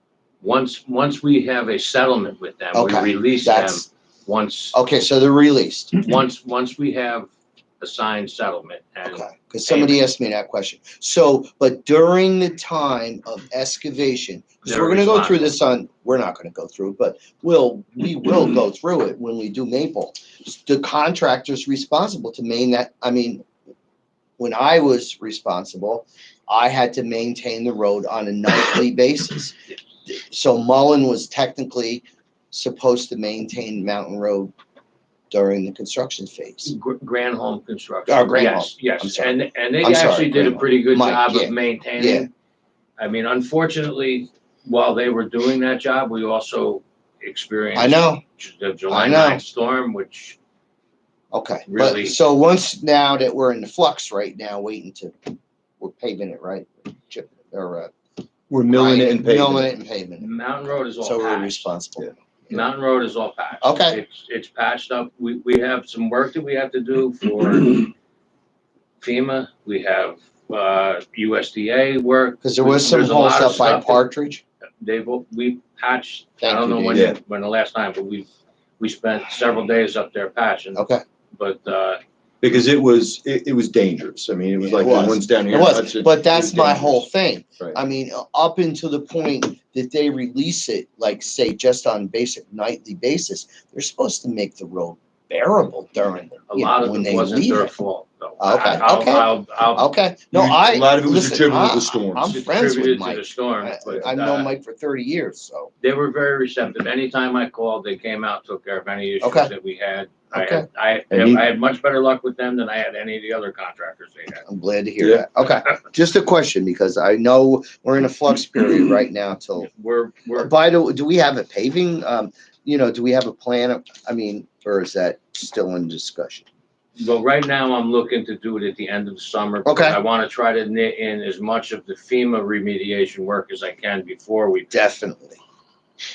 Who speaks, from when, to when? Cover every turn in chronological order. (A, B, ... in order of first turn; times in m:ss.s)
0:00.4-0:04.8 A
0:02.7-0:03.9 B
0:04.7-0:06.0 B
0:06.0-0:07.3 A
0:07.8-0:10.0 A
0:09.0-0:23.4 B
0:14.6-0:15.6 A
0:24.4-0:34.5 B
0:35.3-0:36.7 B
0:36.6-0:42.3 A
0:38.1-0:42.3 B
0:43.0-0:50.4 A
0:47.8-0:48.2 B
0:48.9-0:49.4 B
0:51.3-0:57.9 B
0:51.7-0:52.2 A
0:58.5-0:59.7 C
0:58.7-1:00.3 B
1:00.2-1:01.7 A
1:01.0-1:02.7 B
1:02.5-1:07.9 A
1:03.6-1:04.0 B
1:09.0-1:14.1 A
1:12.4-1:14.4 B
1:14.8-1:20.8 A
1:16.4-1:17.2 B
1:16.9-1:17.2 C
1:20.8-1:21.0 B
1:21.3-1:22.0 A
1:22.4-1:27.1 C
1:24.6-1:37.7 B
1:36.5-1:39.9 A
1:38.4-1:45.7 B
1:40.3-1:42.4 C
1:42.3-1:44.5 A
1:45.8-1:54.4 A
1:49.2-1:49.5 B
1:50.3-1:50.7 B
1:51.1-1:51.4 C
1:54.5-1:59.7 B
1:55.0-1:55.3 C
1:59.6-2:00.5 A
2:00.3-2:06.5 B
2:07.0-2:14.8 A
2:09.6-2:10.0 B
2:14.7-2:15.4 B